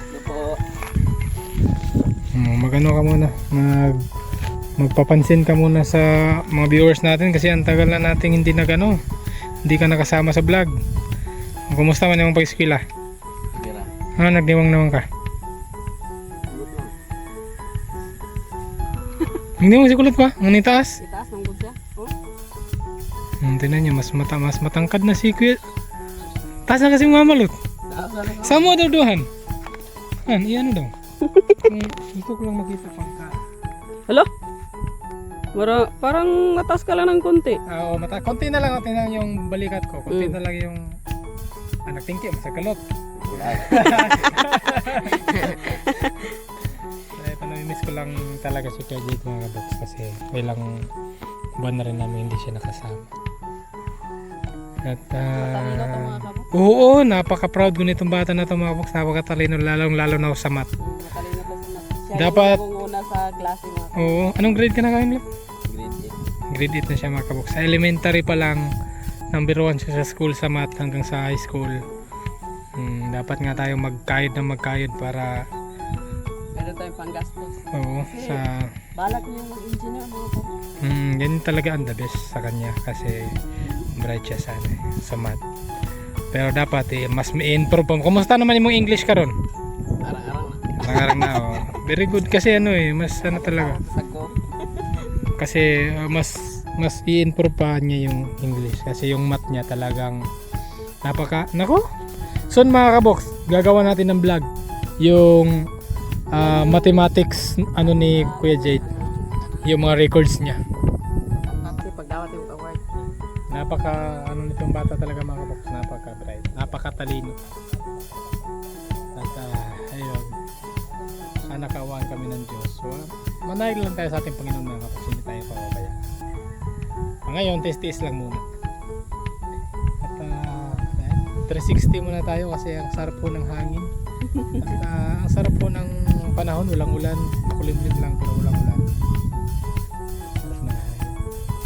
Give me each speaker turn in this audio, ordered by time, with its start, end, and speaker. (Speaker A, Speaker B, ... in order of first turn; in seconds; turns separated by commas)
Speaker A: 0.1-0.6, Speaker B: 2.3-4.0, Speaker B: 4.8-9.0, Speaker B: 9.6-10.7, Speaker B: 11.7-12.8, Speaker A: 13.5-13.9, Speaker B: 14.2-15.1, Speaker A: 16.5-16.9, Speaker B: 19.6-21.0, Speaker C: 21.0-22.1, Speaker B: 23.4-25.6, Speaker B: 26.7-27.5, Speaker A: 27.9-28.8, Speaker B: 28.4-29.3, Speaker B: 30.2-30.9, Speaker C: 31.2-31.6, Speaker B: 31.6-33.4, Speaker C: 35.5-37.6, Speaker B: 37.7-41.0, Speaker C: 40.1-40.3, Speaker B: 41.9-42.8, Speaker A: 43.3-44.2, Speaker B: 43.6-45.4, Speaker C: 45.3-46.2, Speaker B: 47.1-50.9, Speaker B: 51.6-53.1, Speaker B: 54.8-60.7, Speaker C: 55.4-56.5, Speaker C: 60.8-64.2, Speaker B: 62.1-62.6, Speaker B: 64.0-65.2, Speaker A: 65.7-66.2, Speaker B: 66.5-68.7, Speaker B: 69.3-71.8, Speaker B: 72.8-75.5, Speaker C: 76.5-78.4, Speaker B: 77.7-78.7, Speaker C: 79.0-80.6, Speaker B: 80.8-83.3, Speaker B: 83.9-85.4, Speaker B: 86.3-89.3, Speaker A: 90.0-90.6, Speaker B: 90.8-93.8, Speaker C: 93.2-94.3, Speaker B: 95.4-100.2, Speaker B: 101.0-101.8, Speaker B: 102.5-104.5, Speaker B: 105.0-105.7, Speaker B: 106.3-108.8, Speaker C: 106.3-107.1, Speaker C: 107.8-109.7, Speaker B: 109.6-110.6, Speaker C: 111.4-112.8, Speaker B: 113.5-117.4, Speaker B: 119.1-120.3, Speaker B: 121.4-126.0, Speaker B: 127.2-128.4, Speaker B: 130.0-133.9, Speaker B: 134.5-138.8, Speaker B: 140.4-141.2